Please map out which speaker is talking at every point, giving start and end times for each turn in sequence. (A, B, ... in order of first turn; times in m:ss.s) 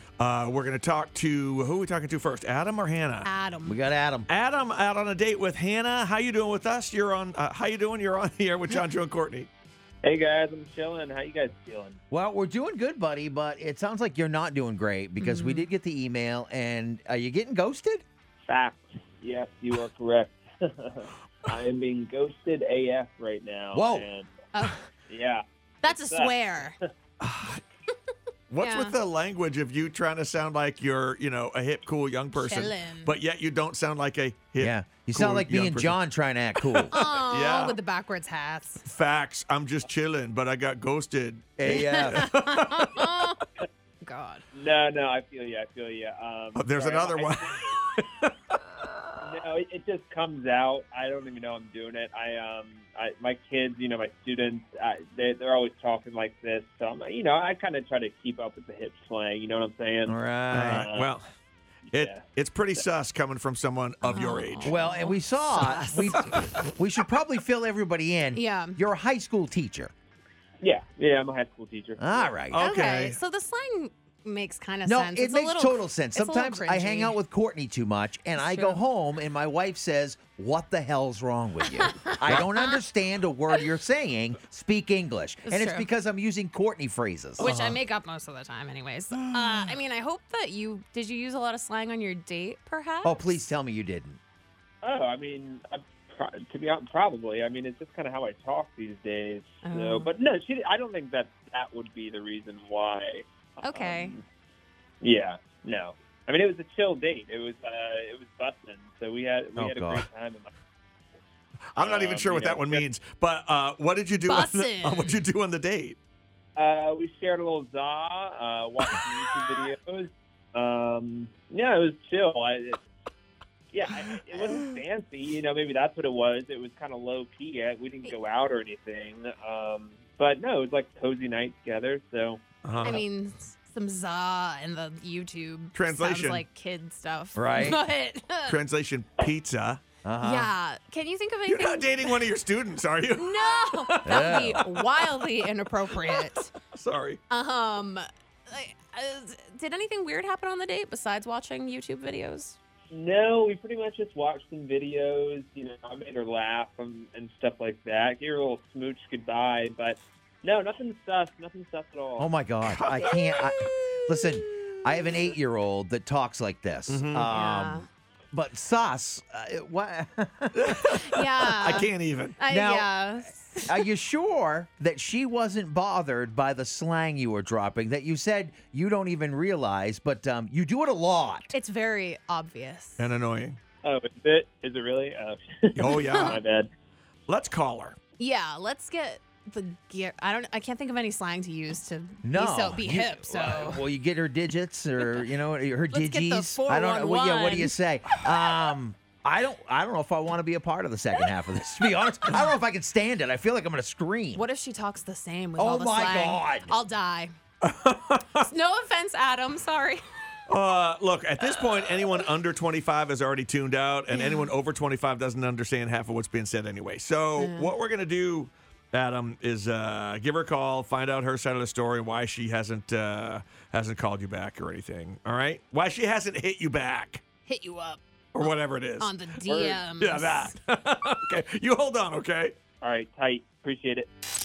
0:00.2-0:03.3 A
0:03.2-0:03.8 B
0:03.6-0:04.3 C
0:04.3-0:09.5 A
0:10.0-0:12.0 D
0:12.1-0:18.0 C
0:15.2-0:15.7 B
0:18.4-0:24.4 D
0:23.7-0:24.1 C
0:24.5-0:24.8 B
0:25.1-0:26.4 D
0:25.8-0:26.8 B
0:27.2-0:27.6 A
0:28.5-0:36.0 A
0:28.6-0:29.0 B
0:32.3-0:33.1 B
0:34.6-0:37.0 C
0:36.6-0:37.8 A
0:36.9-0:38.8 B
0:38.8-0:43.1 A
0:41.6-0:42.3 C
0:41.6-0:43.5 B
0:44.0-0:44.4 B
0:44.5-0:47.6 D
0:46.6-0:48.6 A
0:49.2-1:00.2 D
1:00.1-1:00.9 C
1:00.5-1:01.3 A
1:00.7-1:01.1 D
1:01.9-1:02.2 D
1:01.9-1:04.8 A
1:04.0-1:06.7 B
1:04.6-1:09.9 C
1:08.3-1:08.8 B
1:10.6-1:12.4 D
1:12.0-1:12.6 C
1:12.5-1:13.2 A
1:12.6-1:17.2 B
1:14.8-1:27.5 C
1:18.4-1:18.8 B
1:21.8-1:22.5 B
1:25.4-1:25.9 B
1:27.4-1:27.8 A
1:27.4-1:33.4 B
1:29.1-1:29.8 A
1:33.0-1:34.2 C
1:34.8-1:44.2 D
1:39.6-1:40.1 B
1:43.6-1:44.2 B
1:45.0-1:50.5 D
1:49.6-1:50.1 C
1:51.7-1:56.0 A
1:51.8-1:52.8 D
1:54.2-1:55.2 B
1:56.6-2:02.8 D
2:03.7-2:12.4 D
2:12.6-2:13.0 A
2:12.8-2:18.6 B
2:15.7-2:16.4 A
2:17.4-2:17.8 C
2:18.5-2:19.8 A
2:20.0-2:20.5 C
2:20.2-2:22.3 B
2:21.5-2:25.3 A
2:23.2-2:26.5 B
2:24.0-2:24.7 C
2:26.0-2:27.2 A
2:27.3-2:32.6 B
2:32.9-2:42.3 D
2:42.2-2:50.8 C
2:42.6-2:45.2 A
2:46.9-2:47.3 A
2:47.3-2:47.9 B
2:50.5-2:52.4 A
2:50.9-2:53.8 B
2:52.5-3:01.5 C
3:01.5-3:03.1 B
3:03.0-3:03.6 A
3:03.8-3:06.7 D
3:05.8-3:06.4 A
3:05.8-3:06.4 B
3:07.3-3:08.0 A
3:08.2-3:13.8 B
3:12.2-3:24.4 C
3:15.0-3:15.3 B
3:15.9-3:17.7 B
3:24.4-3:27.3 B
3:25.6-3:26.7 C
3:27.6-3:28.5 A
3:28.4-3:30.0 B
3:30.5-3:47.2 A
3:34.1-3:34.5 B
3:37.4-3:37.7 B
3:47.5-3:50.5 B
3:48.3-3:52.6 A
3:52.8-3:54.1 D